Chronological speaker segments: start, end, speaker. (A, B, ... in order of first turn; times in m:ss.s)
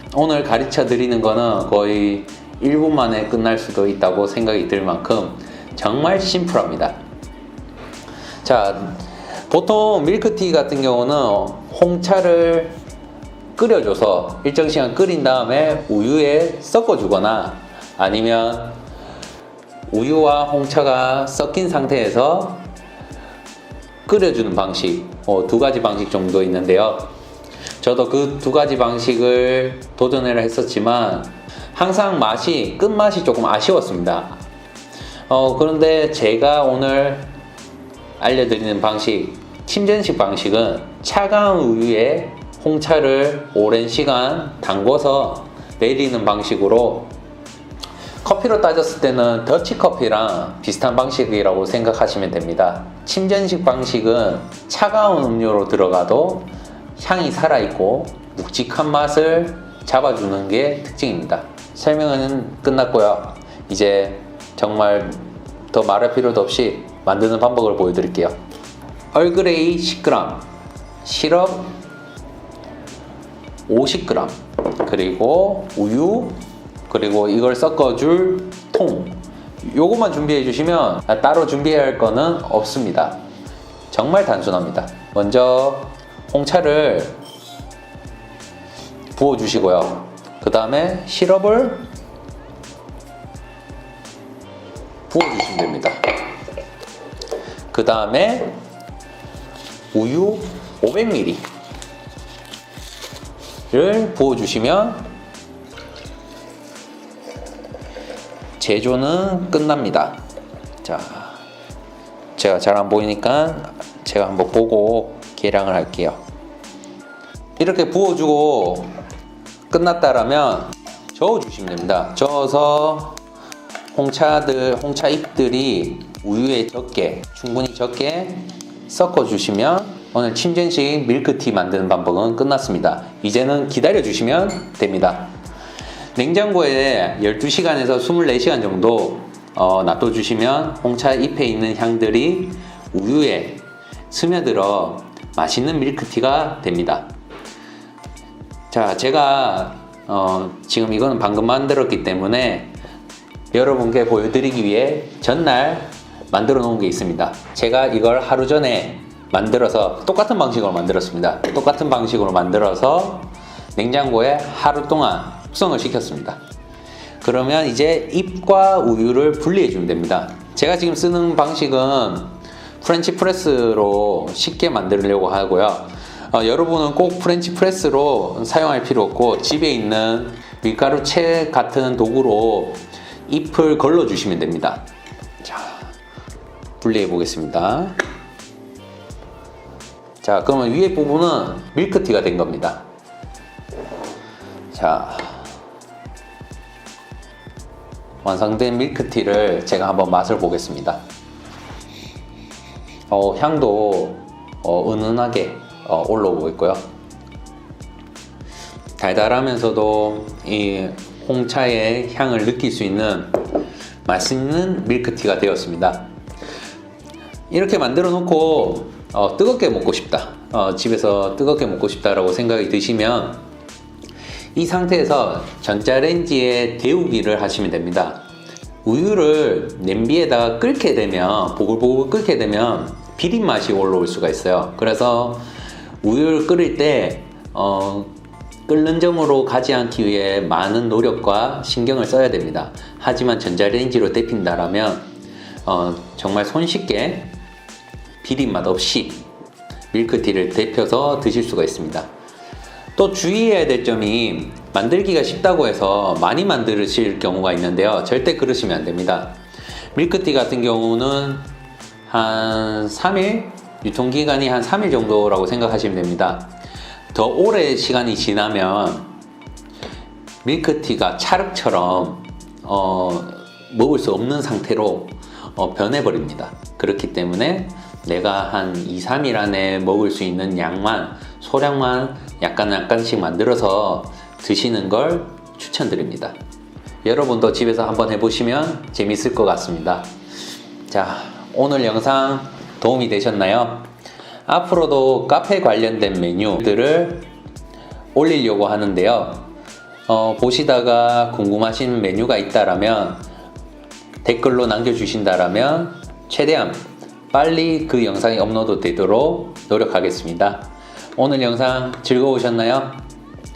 0:00.1-0:07.0 A
0:08.4-0:12.8 A
0:13.6-0:18.8 A
0:19.9-0:22.6 A
0:24.1-0:27.1 A
0:27.8-0:34.4 A
0:35.3-0:37.3 A
0:38.2-0:47.1 A
0:48.2-1:08.4 A
1:09.1-1:10.5 A
1:11.0-1:11.8 A
1:13.7-1:23.2 A
1:23.9-1:27.2 A
1:29.2-1:31.9 A
1:35.1-1:36.0 A
1:37.7-1:38.6 A
1:39.9-1:41.4 A
1:43.7-1:45.1 A
1:48.6-1:50.2 A
1:50.8-1:51.4 A
1:52.4-1:56.2 A
1:57.6-1:58.9 A
1:59.7-2:03.2 A
2:03.9-2:15.3 A
2:16.2-2:27.1 A
2:28.7-2:32.8 A
2:33.5-2:46.4 A
2:47.2-3:04.8 A
3:05.4-3:05.9 A
3:06.8-3:08.0 A
3:10.2-3:12.8 A
3:14.7-3:15.4 A
3:18.2-3:21.0 A
3:23.1-3:26.8 A
3:29.0-3:33.4 A
3:34.0-3:36.1 A
3:37.5-3:43.4 A
3:44.6-3:48.2 A
3:48.8-3:55.4 A
3:56.0-3:58.1 A
3:58.7-4:05.0 A
4:05.6-4:07.4 A
4:08.2-4:09.3 A
4:09.9-4:12.1 A
4:13.0-4:19.4 A
4:20.0-4:21.5 A
4:22.1-4:26.5 A
4:27.1-4:29.1 A
4:30.4-4:46.4 A
4:47.0-4:50.1 A
4:50.9-4:53.9 A
4:54.5-4:57.3 A
4:58.2-4:59.5 A
5:00.1-5:03.2 A
5:04.2-5:13.0 A